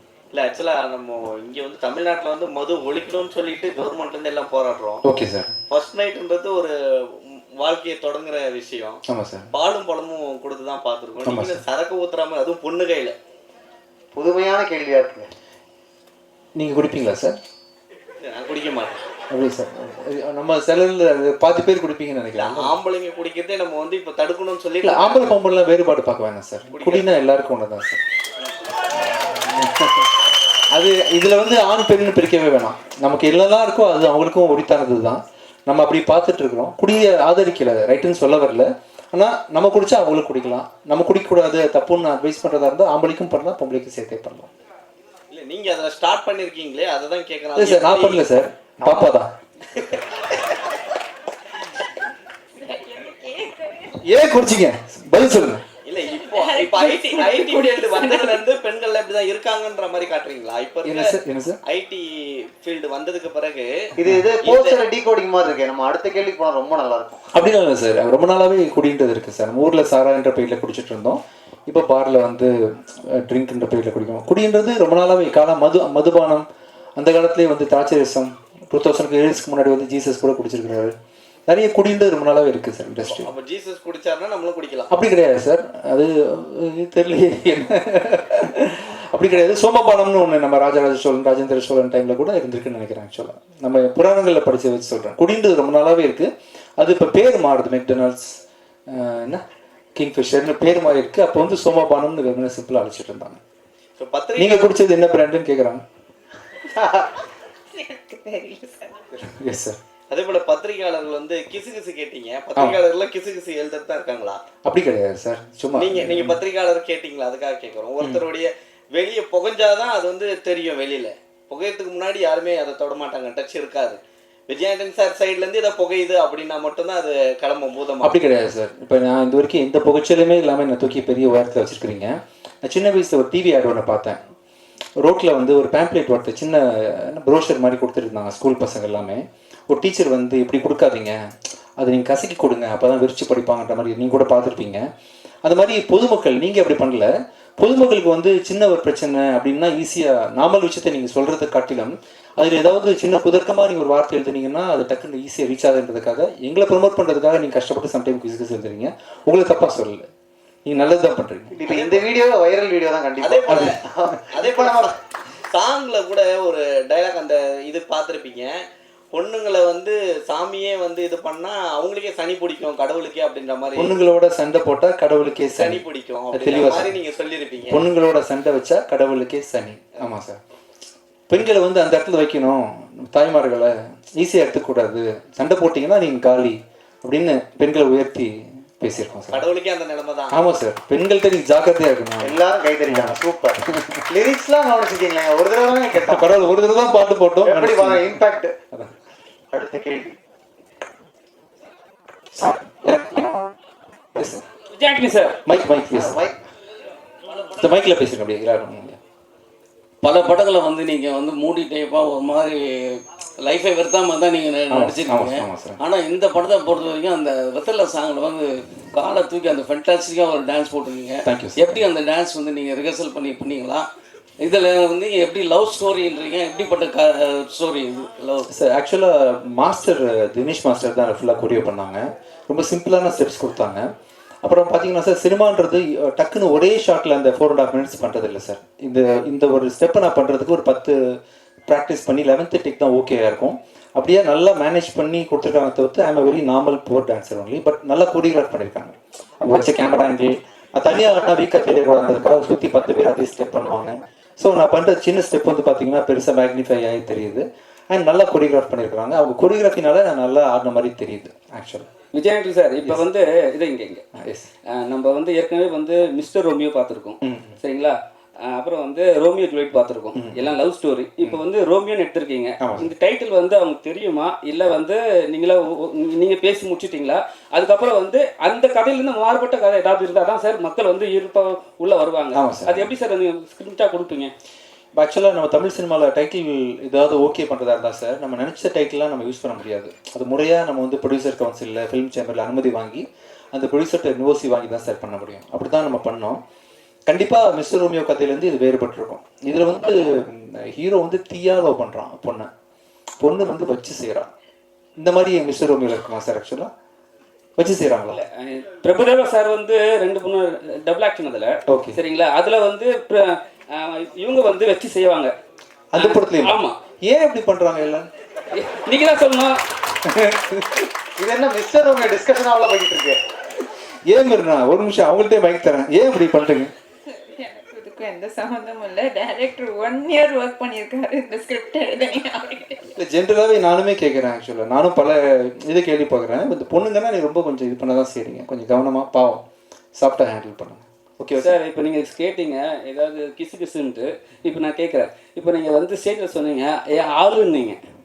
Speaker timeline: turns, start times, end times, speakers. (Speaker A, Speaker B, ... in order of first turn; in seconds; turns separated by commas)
Speaker A: 0.3-5.0, Speaker B: 5.0-5.5, Speaker A: 5.7-9.0, Speaker B: 9.1-9.5, Speaker A: 9.5-13.2, Speaker B: 11.2-11.6, Speaker C: 14.2-15.3, Speaker B: 16.6-17.4, Speaker A: 18.2-19.0, Speaker B: 19.3-22.8, Speaker A: 22.4-25.4, Speaker B: 24.8-28.0, Speaker A: 26.7-27.2, Speaker B: 29.1-30.1, Speaker B: 30.7-44.5, Speaker A: 45.3-48.3, Speaker B: 47.5-49.3, Speaker A: 48.8-49.1, Speaker A: 49.7-50.2, Speaker D: 52.6-54.0, Speaker B: 54.0-55.6, Speaker A: 55.9-61.1, Speaker D: 56.1-58.4, Speaker B: 60.9-61.6, Speaker A: 61.7-63.7, Speaker C: 64.0-67.2, Speaker A: 64.4-64.8, Speaker B: 67.3-76.5, Speaker B: 77.0-80.9, Speaker B: 81.5-83.3, Speaker A: 83.1-84.9, Speaker B: 84.9-99.4, Speaker B: 100.0-103.4, Speaker A: 104.0-104.7, Speaker B: 104.4-105.8, Speaker C: 106.8-107.1, Speaker D: 107.7-109.0, Speaker B: 109.2-109.8, Speaker A: 110.1-114.4, Speaker B: 114.7-116.4, Speaker A: 115.8-128.1, Speaker B: 128.0-134.2, Speaker B: 135.0-141.2, Speaker B: 141.8-144.8, Speaker B: 145.4-160.1, Speaker B: 160.7-161.6, Speaker C: 161.6-164.9, Speaker A: 161.7-162.1, Speaker A: 163.2-163.8, Speaker A: 164.3-164.9, Speaker A: 165.5-173.9, Speaker B: 173.8-177.0, Speaker A: 175.4-177.8, Speaker B: 177.7-180.4, Speaker B: 181.3-189.4, Speaker A: 189.3-190.4, Speaker B: 190.3-193.2, Speaker C: 192.2-196.3, Speaker B: 196.0-198.2, Speaker C: 197.4-198.6, Speaker C: 199.5-200.2, Speaker B: 202.3-203.3, Speaker B: 204.2-204.4, Speaker E: 204.8-205.4, Speaker B: 205.5-206.2, Speaker C: 205.9-206.4, Speaker B: 207.4-209.0, Speaker F: 210.0-223.9, Speaker B: 214.7-215.8, Speaker B: 221.2-221.8, Speaker F: 224.4-228.5, Speaker B: 228.5-233.8, Speaker B: 234.4-241.0, Speaker B: 241.7-261.9, Speaker E: 262.1-264.0, Speaker B: 264.1-264.5, Speaker E: 264.7-284.3, Speaker B: 267.2-267.6, Speaker B: 270.1-270.6, Speaker B: 272.6-272.9, Speaker B: 282.3-282.9, Speaker B: 285.0-296.4, Speaker B: 297.1-302.5, Speaker B: 303.2-304.3, Speaker B: 305.0-306.7, Speaker B: 307.6-308.2, Speaker E: 308.1-315.3, Speaker B: 311.7-312.0, Speaker B: 315.9-316.6, Speaker E: 316.0-316.8, Speaker B: 317.1-318.1, Speaker E: 318.6-319.6, Speaker B: 320.1-320.9, Speaker C: 321.2-323.2, Speaker B: 324.1-326.7, Speaker D: 327.1-332.8, Speaker B: 333.0-339.4, Speaker B: 340.0-341.6, Speaker E: 341.4-347.8